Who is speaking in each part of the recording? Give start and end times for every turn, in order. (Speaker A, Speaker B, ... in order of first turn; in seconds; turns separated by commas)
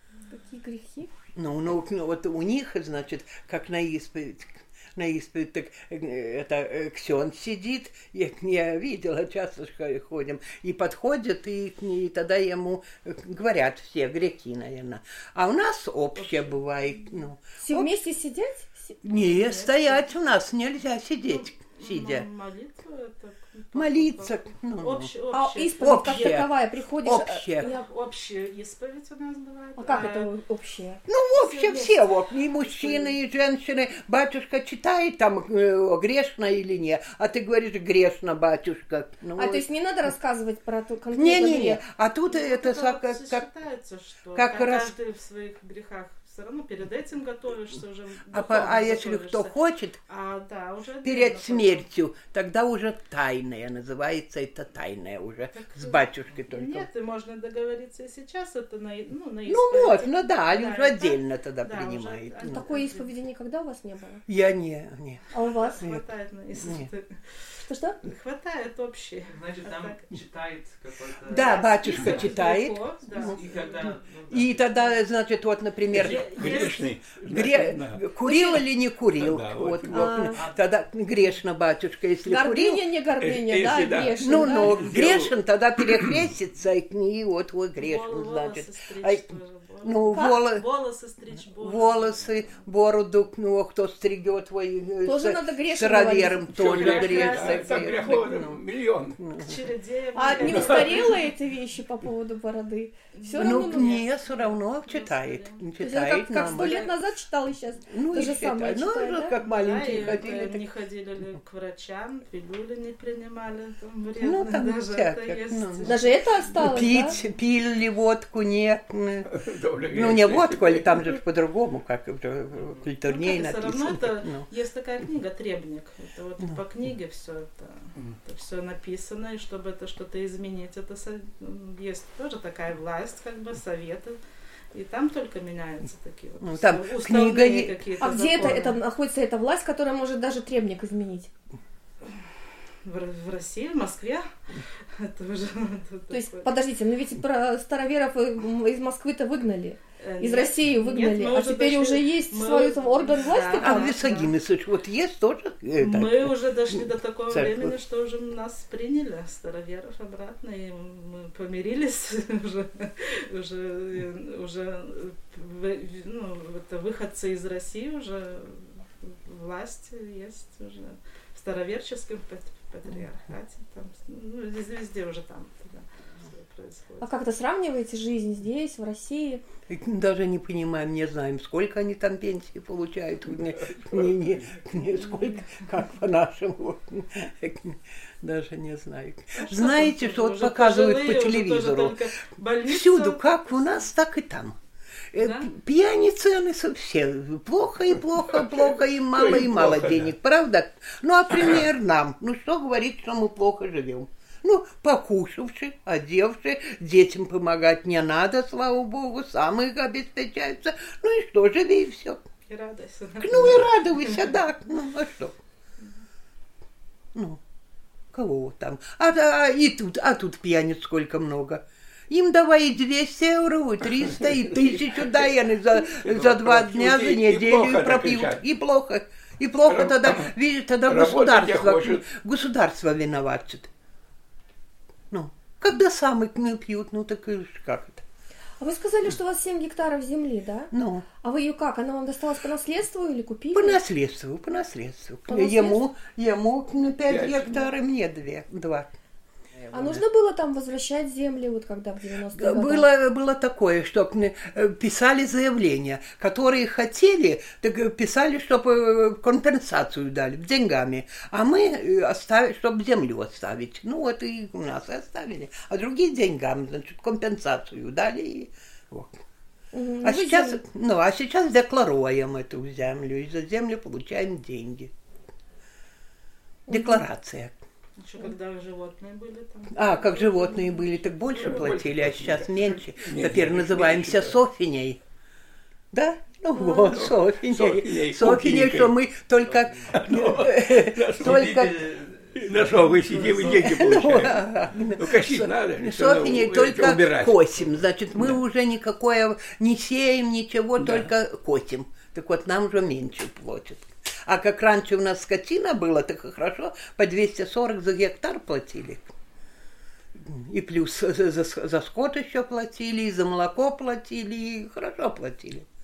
Speaker A: 0.3-1.1, Speaker B: 1.3-17.9, Speaker C: 16.1-17.1, Speaker A: 17.6-19.0, Speaker B: 19.0-22.2, Speaker C: 19.1-20.0, Speaker C: 21.3-26.4, Speaker B: 23.7-25.1, Speaker A: 25.3-27.8, Speaker B: 25.8-27.7, Speaker C: 27.6-30.3, Speaker A: 29.8-31.0, Speaker B: 31.1-39.6, Speaker C: 31.4-32.0, Speaker C: 32.7-33.1, Speaker A: 39.4-41.8, Speaker B: 41.1-43.5, Speaker C: 42.3-49.5, Speaker B: 44.3-44.9, Speaker B: 48.3-50.0, Speaker C: 50.1-51.9, Speaker B: 51.0-56.9, Speaker C: 55.5-63.1, Speaker B: 59.5-62.7, Speaker A: 62.5-64.2, Speaker B: 64.2-66.0, Speaker A: 65.3-65.8, Speaker C: 65.5-70.0, Speaker B: 66.6-66.9, Speaker A: 67.6-68.0, Speaker D: 69.3-72.4, Speaker B: 71.2-73.4, Speaker C: 71.3-74.0, Speaker D: 73.1-75.0, Speaker B: 74.3-82.8, Speaker E: 75.9-78.2, Speaker C: 75.9-76.9, Speaker E: 79.1-80.1, Speaker A: 79.9-80.4, Speaker D: 80.3-80.6, Speaker A: 82.2-84.8, Speaker E: 83.2-86.3, Speaker B: 84.2-90.6, Speaker C: 87.8-92.7, Speaker B: 91.5-98.6, Speaker A: 95.0-96.5, Speaker E: 96.5-99.2, Speaker C: 96.7-98.4, Speaker B: 99.2-99.5, Speaker C: 99.4-101.2, Speaker A: 100.2-104.0, Speaker E: 100.4-100.9, Speaker C: 103.1-105.7, Speaker B: 103.4-106.9, Speaker A: 105.8-109.3, Speaker C: 106.3-106.9, Speaker B: 107.9-110.7, Speaker C: 109.4-116.0, Speaker B: 114.2-119.3, Speaker A: 115.8-117.2, Speaker C: 116.6-117.0, Speaker E: 119.2-121.2, Speaker B: 119.9-124.5, Speaker C: 123.0-134.2, Speaker C: 134.7-138.8, Speaker B: 136.4-138.6, Speaker A: 138.0-141.3, Speaker C: 142.8-144.3, Speaker C: 144.9-146.5, Speaker A: 146.1-154.0, Speaker C: 150.0-154.3, Speaker B: 153.5-157.7, Speaker C: 155.8-177.2, Speaker A: 177.0-179.4, Speaker B: 179.7-192.0, Speaker E: 183.6-184.7, Speaker C: 189.3-193.8, Speaker B: 192.6-194.6, Speaker B: 195.1-212.2, Speaker C: 195.2-195.5, Speaker E: 198.2-200.1, Speaker E: 201.4-201.7, Speaker C: 212.5-214.3, Speaker B: 213.2-215.4, Speaker B: 217.1-217.4, Speaker B: 218.1-233.7, Speaker E: 224.2-225.3, Speaker E: 225.9-228.4, Speaker E: 229.7-232.1, Speaker B: 235.1-238.0, Speaker A: 238.6-243.8, Speaker B: 240.7-241.1, Speaker B: 243.5-248.9, Speaker A: 245.3-245.8, Speaker E: 247.1-247.7, Speaker D: 249.5-250.1, Speaker A: 249.7-252.9, Speaker B: 252.3-269.2, Speaker A: 269.7-270.6, Speaker B: 270.0-274.9, Speaker A: 276.7-277.0, Speaker B: 276.7-277.6, Speaker C: 278.0-281.6, Speaker B: 279.7-285.0, Speaker E: 281.3-284.4, Speaker B: 285.9-291.9, Speaker A: 286.6-287.0, Speaker E: 286.9-288.9, Speaker D: 289.5-289.7, Speaker E: 289.9-298.4, Speaker D: 291.2-293.6, Speaker B: 293.1-309.1, Speaker E: 300.8-301.1, Speaker B: 310.1-315.6